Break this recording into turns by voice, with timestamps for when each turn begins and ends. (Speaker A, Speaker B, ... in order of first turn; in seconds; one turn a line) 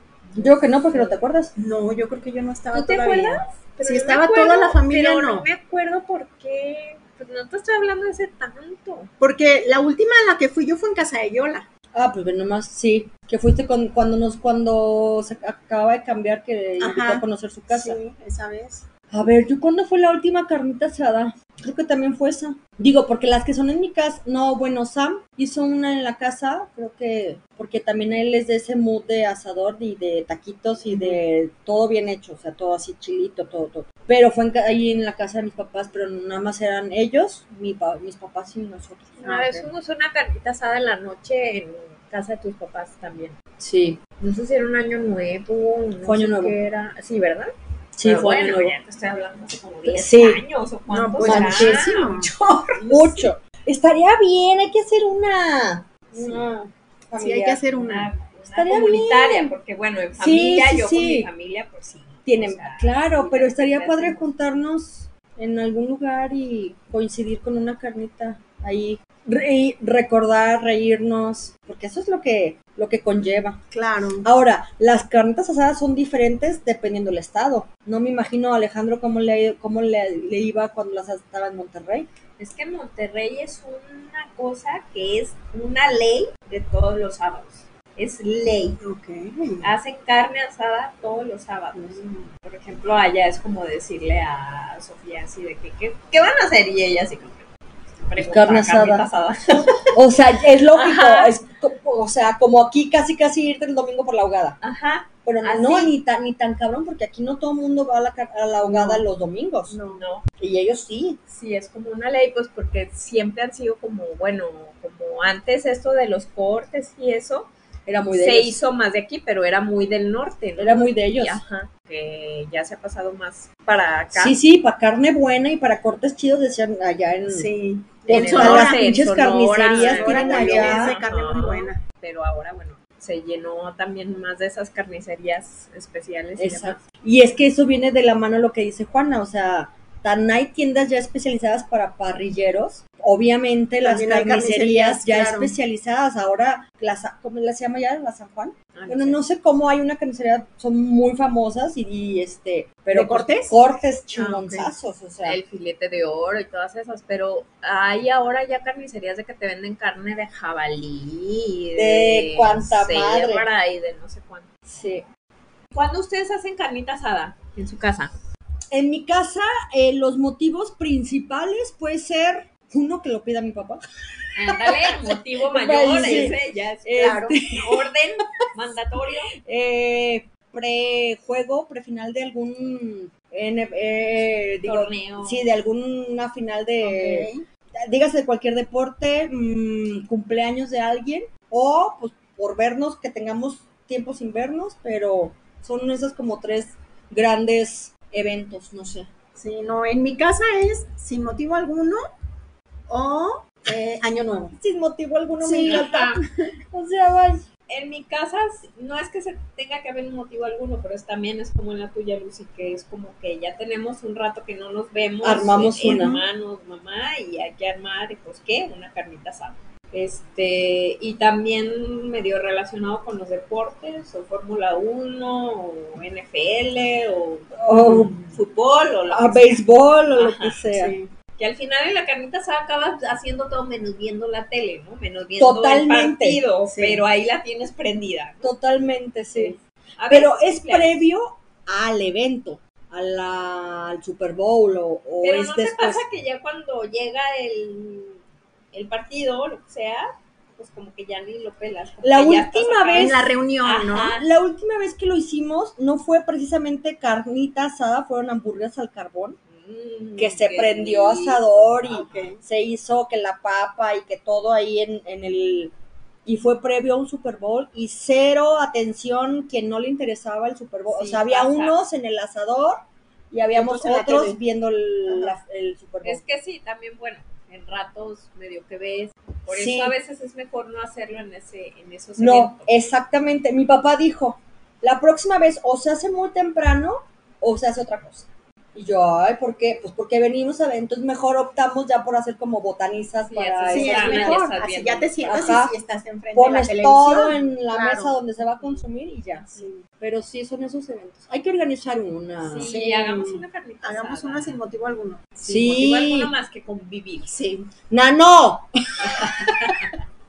Speaker A: 0.4-1.5
Speaker B: 1.6-5.5
Speaker C: 2.7-9.1
Speaker B: 9.2-11.7
Speaker A: 11.9-18.0
Speaker B: 16.8-18.9
Speaker A: 19.1-39.7
Speaker B: 30.9-31.2
Speaker C: 39.2-43.4
Speaker A: 43.6-44.0
Speaker C: 44.2-47.5
Speaker A: 46.0-46.5
Speaker A: 48.0-48.8
Speaker C: 48.0-53.2
Speaker A: 49.9-50.4
Speaker B: 50.9-52.3
Speaker A: 51.2-51.9
Speaker A: 52.8-57.6
Speaker C: 56.1-56.5
Speaker B: 57.2-58.1
Speaker C: 57.6-64.3
Speaker A: 58.5-59.5
Speaker A: 60.2-61.3
Speaker A: 62.3-73.6
Speaker B: 73.7-74.3
Speaker A: 74.2-82.1
Speaker C: 82.4-88.8
Speaker B: 88.8-89.7
Speaker C: 89.6-99.9
Speaker B: 91.7-92.3
Speaker A: 98.2-99.1
Speaker A: 99.8-104.6
Speaker C: 100.7-101.4
Speaker C: 104.6-105.9
Speaker A: 105.2-109.8
Speaker B: 108.7-109.0
Speaker B: 109.7-110.0
Speaker C: 109.9-110.2
Speaker A: 110.4-111.2
Speaker C: 111.3-117.5
Speaker A: 117.9-118.6
Speaker C: 118.1-124.4
Speaker A: 120.6-121.4
Speaker A: 124.1-127.5
Speaker B: 127.3-129.0
Speaker A: 128.1-131.0
Speaker C: 128.1-136.8
Speaker B: 129.8-131.8
Speaker A: 136.4-155.4
Speaker B: 143.8-145.5
Speaker C: 148.7-149.2
Speaker B: 152.9-153.6
Speaker B: 154.1-154.7
Speaker C: 155.2-164.5
Speaker A: 161.8-163.4
Speaker A: 164.7-165.0
Speaker C: 165.7-168.1
Speaker A: 168.7-173.8
Speaker C: 174.3-179.3
Speaker A: 174.4-177.9
Speaker B: 177.0-177.4
Speaker A: 179.4-199.1
Speaker C: 184.6-185.5
Speaker B: 186.8-187.4
Speaker B: 199.3-202.0
Speaker B: 202.9-204.6
Speaker A: 204.6-207.5
Speaker B: 205.4-205.9
Speaker C: 205.6-206.2
Speaker C: 207.7-230.6
Speaker A: 215.2-216.2
Speaker A: 227.6-228.1
Speaker A: 229.1-230.9
Speaker B: 230.7-231.1
Speaker C: 231.3-238.5
Speaker A: 235.4-236.4
Speaker B: 236.7-237.0
Speaker A: 238.4-239.6
Speaker C: 239.3-241.1
Speaker A: 240.1-246.0
Speaker C: 245.2-248.2
Speaker C: 248.7-254.3
Speaker A: 252.0-253.2
Speaker B: 252.9-254.2
Speaker A: 254.2-259.4
Speaker C: 259.5-262.3
Speaker A: 260.2-265.7
Speaker B: 261.9-262.4
Speaker A: 266.2-276.2
Speaker C: 270.9-271.8
Speaker B: 273.5-274.4
Speaker B: 275.1-275.4
Speaker C: 276.0-282.7
Speaker A: 279.5-280.0
Speaker A: 282.2-294.5
Speaker C: 293.2-295.5
Speaker B: 293.7-298.1
Speaker A: 295.2-295.7
Speaker A: 296.3-302.7
Speaker B: 299.5-299.8
Speaker C: 302.4-304.6
Speaker B: 302.6-305.7
Speaker A: 305.4-306.3
Speaker C: 305.4-307.4
Speaker B: 307.2-307.7
Speaker A: 307.9-309.9
Speaker C: 309.1-309.9